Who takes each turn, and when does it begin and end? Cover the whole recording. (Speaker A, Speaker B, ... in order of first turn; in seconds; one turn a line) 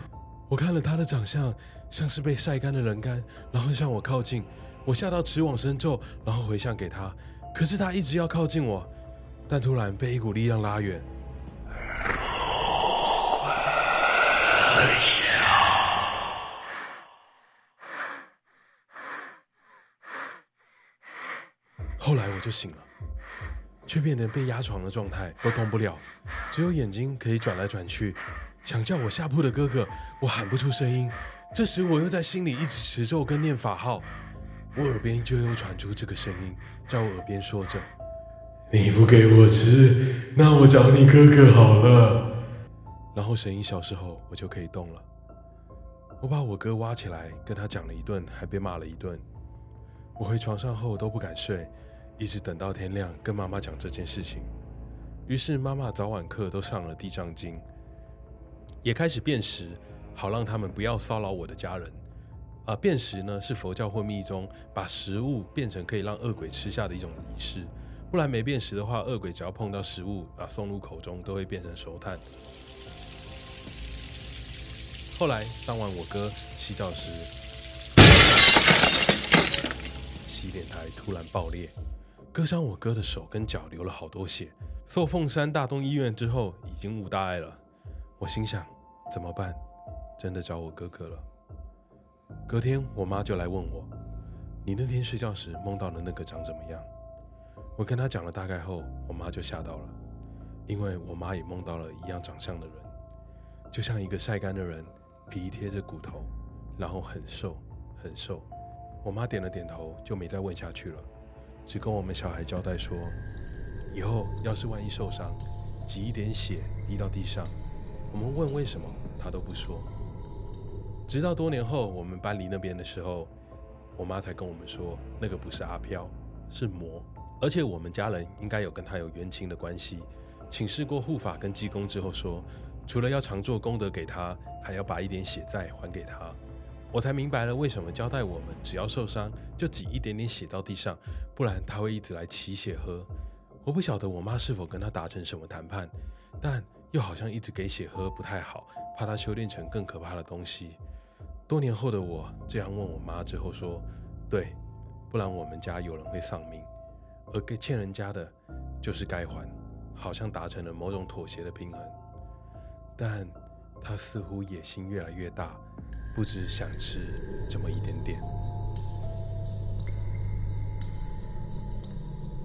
Speaker A: 0.5-8.9
Speaker A: 9.5-11.1
Speaker A: 22.0-22.9
Speaker A: 23.9-34.1
Speaker A: 34.8-37.9
Speaker A: 38.7-42.3
Speaker A: 43.1-45.0
Speaker A: 46.2-49.2
Speaker A: 50.2-54.5
Speaker A: 55.3-57.6
Speaker A: 58.8-62.0
Speaker A: 62.6-72.2
Speaker A: 75.1-77.3
Speaker A: 80.2-81.8
Speaker A: 82.3-87.6
Speaker A: 88.2-89.6
Speaker A: 90.2-91.2
Speaker A: 92.5-93.9
Speaker A: 94.7-96.9
Speaker A: 97.8-99.9
Speaker A: 100.7-102.9
Speaker A: 103.7-108.5
Speaker A: 109.0-111.1
Speaker A: 111.7-113.2
Speaker A: 113.9-117.5
Speaker A: 118.1-119.9
Speaker A: 121.1-123.3
Speaker A: 124.0-136.4
Speaker A: 136.9-143.1
Speaker A: 143.6-150.8
Speaker A: 151.5-154.6
Speaker A: 155.1-156.7
Speaker A: 157.3-161.9
Speaker A: 163.0-165.6
Speaker A: 166.1-168.3